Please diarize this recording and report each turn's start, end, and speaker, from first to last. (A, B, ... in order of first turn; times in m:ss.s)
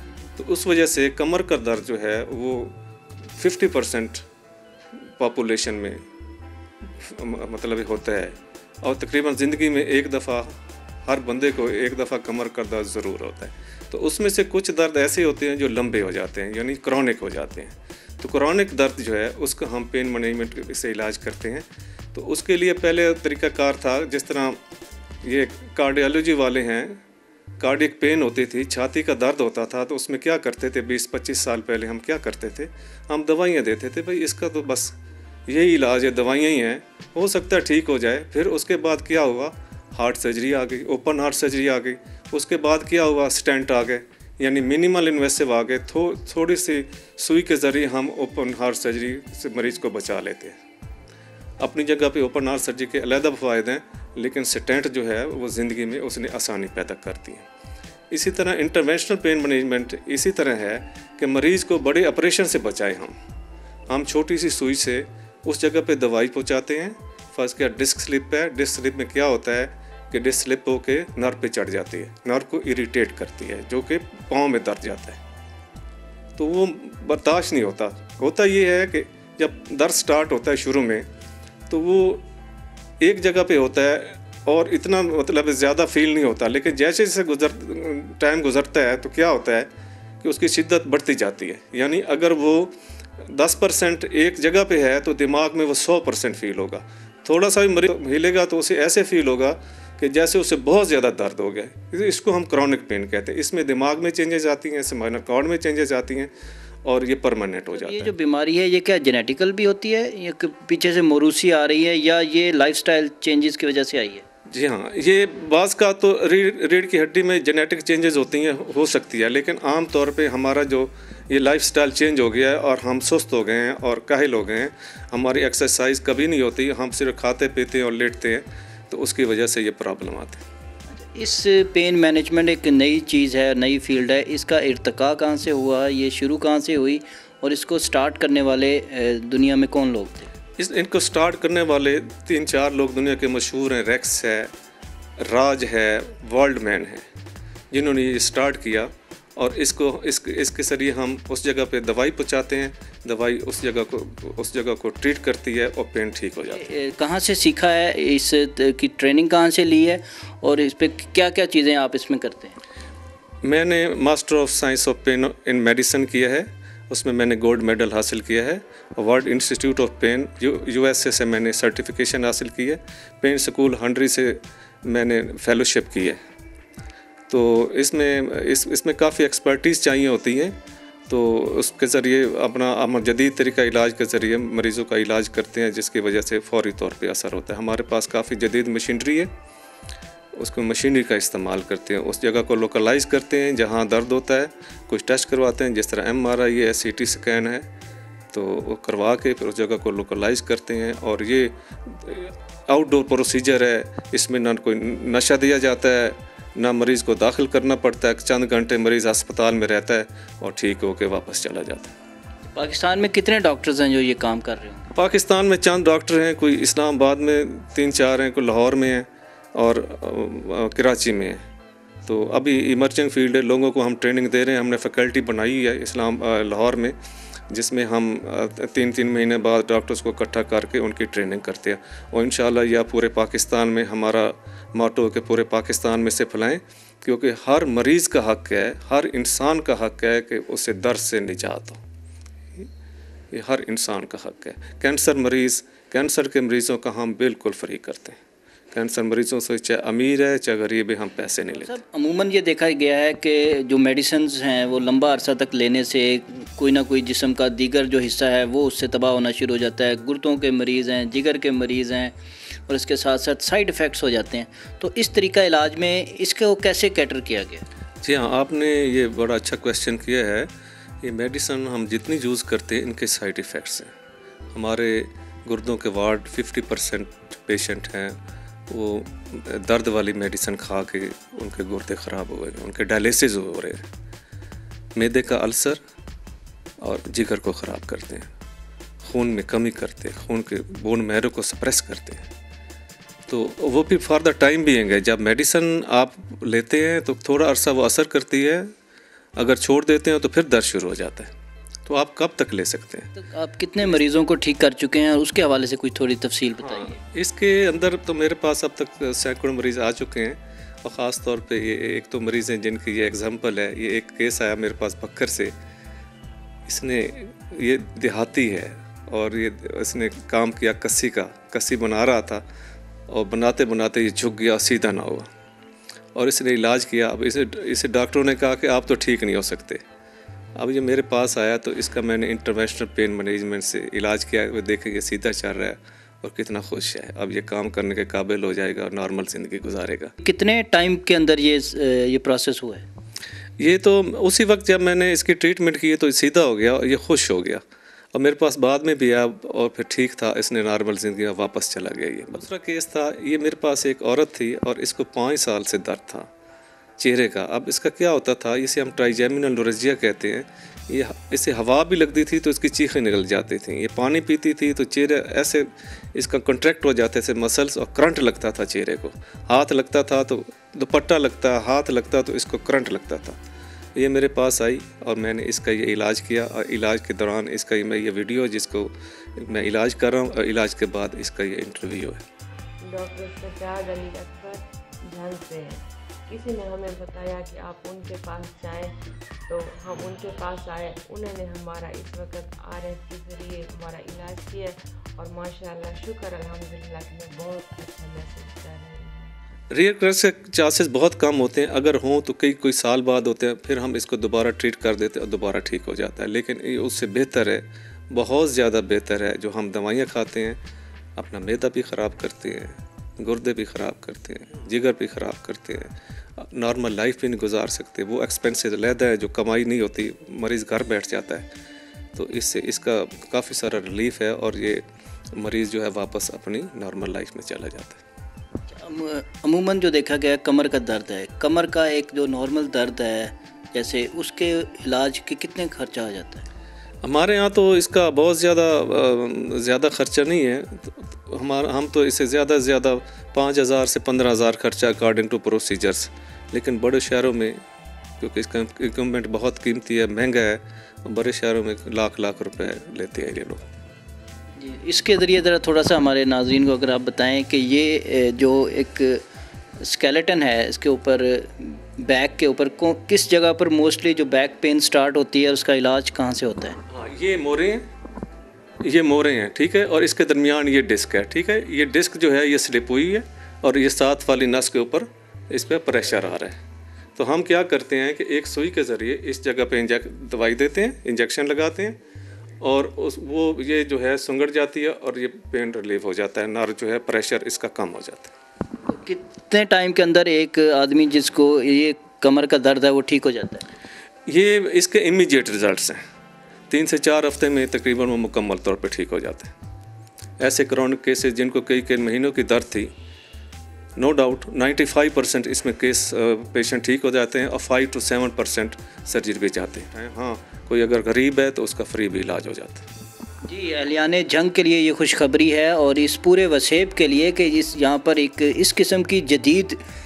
0:00.4-0:02.7 A
0:03.4-0:04.2 A
0:05.2-0:06.0 A
0:07.0-0:10.5 A
0:11.0-0:24.6 A
0:25.2-0:27.0 A
0:27.6-0:50.6 A
0:51.6-0:57.4 A
0:58.1-1:03.1 A
1:03.9-1:15.2 A
1:16.4-1:21.1 A
1:21.7-1:22.2 A
1:23.0-1:29.7 A
1:30.2-1:46.3 A
1:46.8-1:48.1 A
1:47.7-1:54.2 B
1:54.5-2:10.4 A
2:11.0-2:20.3 B
2:20.6-2:24.5 A
2:25.2-2:27.0 A
2:27.7-2:36.6 A
2:36.5-2:42.6 B
2:43.4-2:56.2 A
2:57.3-3:00.6 A
3:01.1-3:09.3 A
3:10.3-3:17.7 A
3:18.3-3:31.9 A
3:32.5-3:34.9 B
3:34.9-3:41.4 A
3:42.0-3:47.0 A
3:47.5-4:01.8 A
4:03.3-4:08.2 A
4:08.7-4:11.8 A
4:11.5-4:22.1 B
4:22.7-4:27.6 B
4:28.0-4:30.5 A
4:31.0-4:33.9 A
4:34.5-4:38.2 A
4:38.7-4:43.8 A
4:45.0-4:45.8 A
4:46.8-4:48.3 A
4:49.1-4:52.3 A
4:53.3-4:58.7 A
4:59.4-5:01.3 A
5:01.8-5:03.1 A
5:03.2-5:07.0 B
5:06.6-5:15.5 A
5:16.7-5:22.4 A
5:23.1-5:25.3 A
5:26.1-5:29.8 A
5:30.6-5:40.1 A
5:40.2-5:42.8 B
5:43.6-5:47.6 A
5:48.1-5:56.3 A
5:57.0-6:13.4 A
6:14.0-6:22.2 A
6:22.8-6:28.9 C
6:29.5-6:39.3 C
6:39.7-6:50.6 A
6:51.2-7:01.5 A
7:02.1-7:04.8 A
7:05.4-7:08.0 A
7:08.7-7:16.4 B
7:17.0-7:27.6 A
7:28.2-7:33.6 A
7:34.6-7:39.2 B
7:39.8-7:46.8 B
7:46.9-7:47.9 A
7:48.8-7:56.6 A
7:57.2-8:02.0 A
8:02.6-8:08.3 A
8:08.8-8:13.6 B
8:14.3-8:16.0 A
8:16.7-8:19.5 A
8:20.4-8:22.9 A
8:24.0-8:32.8 A
8:33.4-8:39.8 B